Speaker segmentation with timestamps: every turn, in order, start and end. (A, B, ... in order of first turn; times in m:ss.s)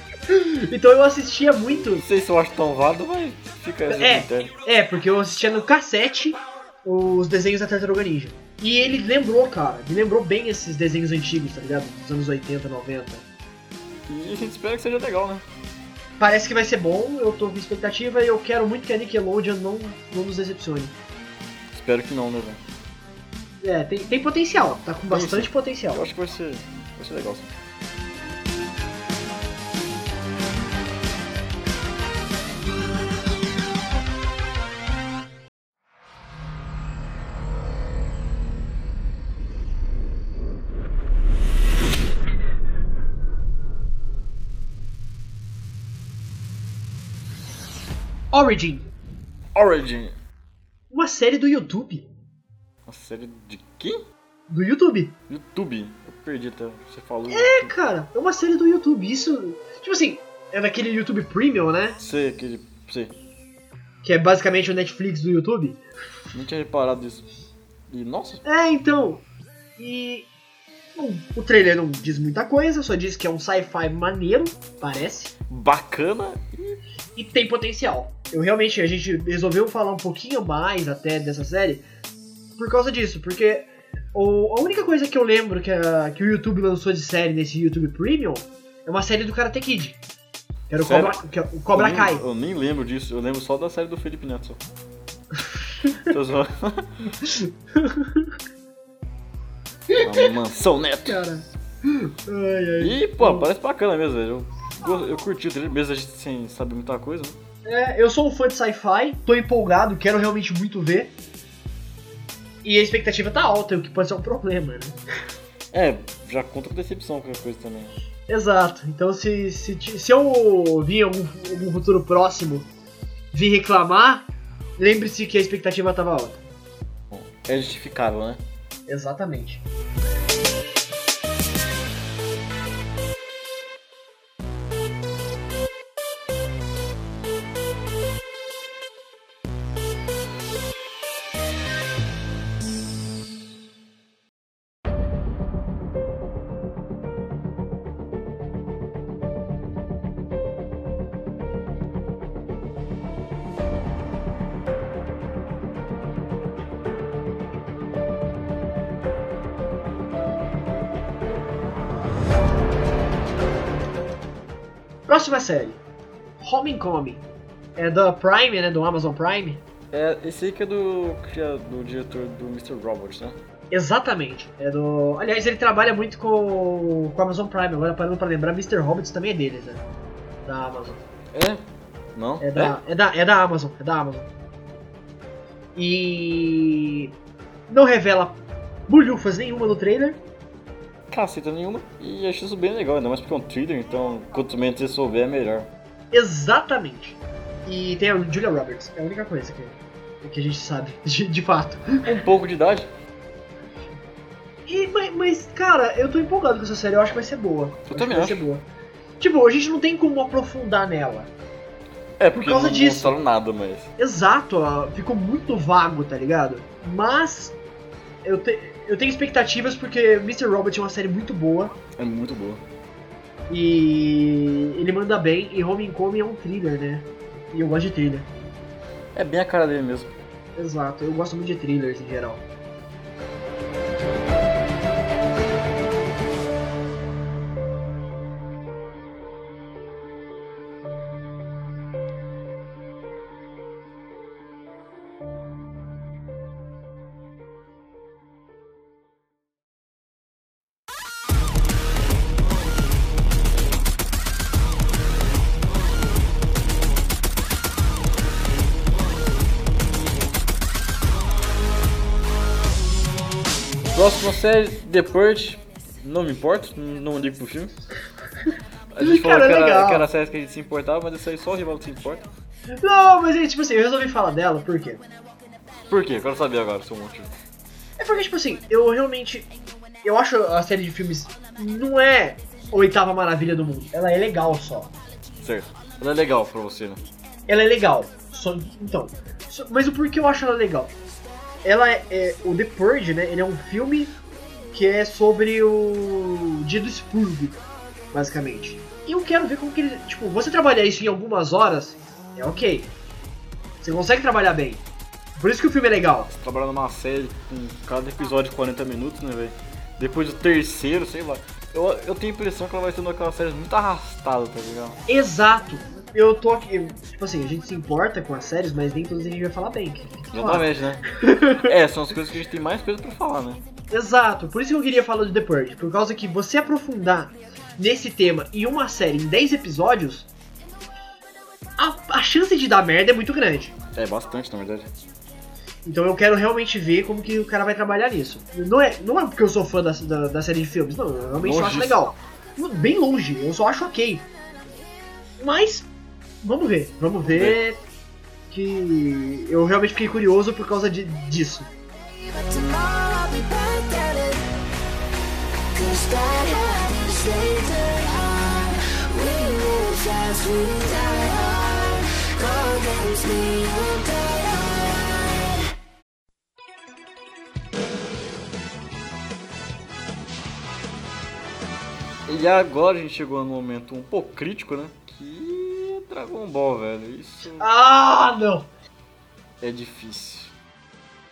0:00.3-0:02.0 A
0:02.0-0:04.5 B
0:03.9-0:13.3 A
0:14.1-0:15.4 B
0:16.2-0:21.0 A
0:21.7-0:22.6 B
0:23.6-0:26.0 A
0:25.1-0:27.5 B
0:48.3-0:48.9 A
0:49.6-0:50.2 B
0:50.9-0:52.1 A
0:52.9-0:54.0 B
0:54.5-0:55.2 A
0:55.3-0:57.7 B
0:57.3-1:02.0 A
1:02.0-1:03.1 B
1:04.0-1:05.8 A
1:06.3-1:07.3 B
1:07.9-1:08.4 B
1:08.4-1:09.2 A
1:09.8-1:10.3 A
1:11.0-1:15.3 A
1:15.5-1:16.8 B
1:17.2-1:21.8 A
1:22.6-1:30.0 A
1:30.7-1:32.2 A
1:30.8-1:31.2 B
1:31.7-1:34.6 B
1:36.1-1:36.9 B
1:37.2-1:38.3 A
1:39.9-1:40.3 A
1:40.0-1:41.2 B
1:41.0-1:43.5 A
1:42.8-1:47.4 B
1:47.6-1:51.1 A
1:52.6-1:55.0 A
1:55.7-1:57.9 B
1:58.3-2:02.7 A
2:03.3-2:04.3 A
2:04.8-2:06.4 A
2:07.1-2:08.4 B
2:08.9-2:09.6 A
2:45.1-2:45.8 A
2:46.4-2:47.2 A
2:47.8-2:49.6 A
2:49.9-2:53.4 B
2:53.7-2:59.8 A
3:00.4-3:01.0 A
3:01.3-3:01.6 B
3:02.2-3:02.8 B
3:02.4-3:04.3 A
3:05.8-3:07.1 A
3:07.7-3:08.4 A
3:08.9-3:10.2 A
3:11.1-3:15.7 B
3:16.1-3:22.2 A
3:22.1-3:22.9 B
3:24.7-3:28.7 A
3:27.9-3:28.4 B
3:29.2-3:31.3 A
3:32.2-3:33.9 B
3:32.3-3:33.2 A
3:34.0-3:37.6 A
3:38.2-3:41.8 A
3:42.0-3:42.6 B
3:43.5-3:48.3 A
3:49.1-3:50.1 B
3:50.6-3:52.4 A
4:23.9-4:27.7 B
4:28.9-4:32.3 B
4:29.0-4:30.1 A
4:32.8-4:35.0 A
4:35.9-4:37.3 B
4:38.0-4:39.5 A
4:40.0-4:44.9 A
4:45.4-4:47.0 B
4:47.5-4:50.9 A
4:51.6-4:54.2 A
4:54.7-5:02.9 A
5:03.8-5:04.8 A
5:05.4-5:06.3 A
5:06.3-5:15.0 B
5:15.1-5:21.7 A
5:20.3-5:23.6 B
5:23.9-5:30.3 A
5:31.8-5:33.8 A
5:34.0-5:34.9 B
5:35.8-5:44.3 A
5:41.4-5:42.0 B
5:45.4-5:45.9 A
5:46.4-5:47.8 A
5:47.2-5:47.6 B
5:48.5-5:51.7 A
5:52.2-5:54.5 C
5:55.7-6:05.6 C
6:12.3-6:17.7 B
6:17.6-6:18.7 A
6:19.6-6:20.5 B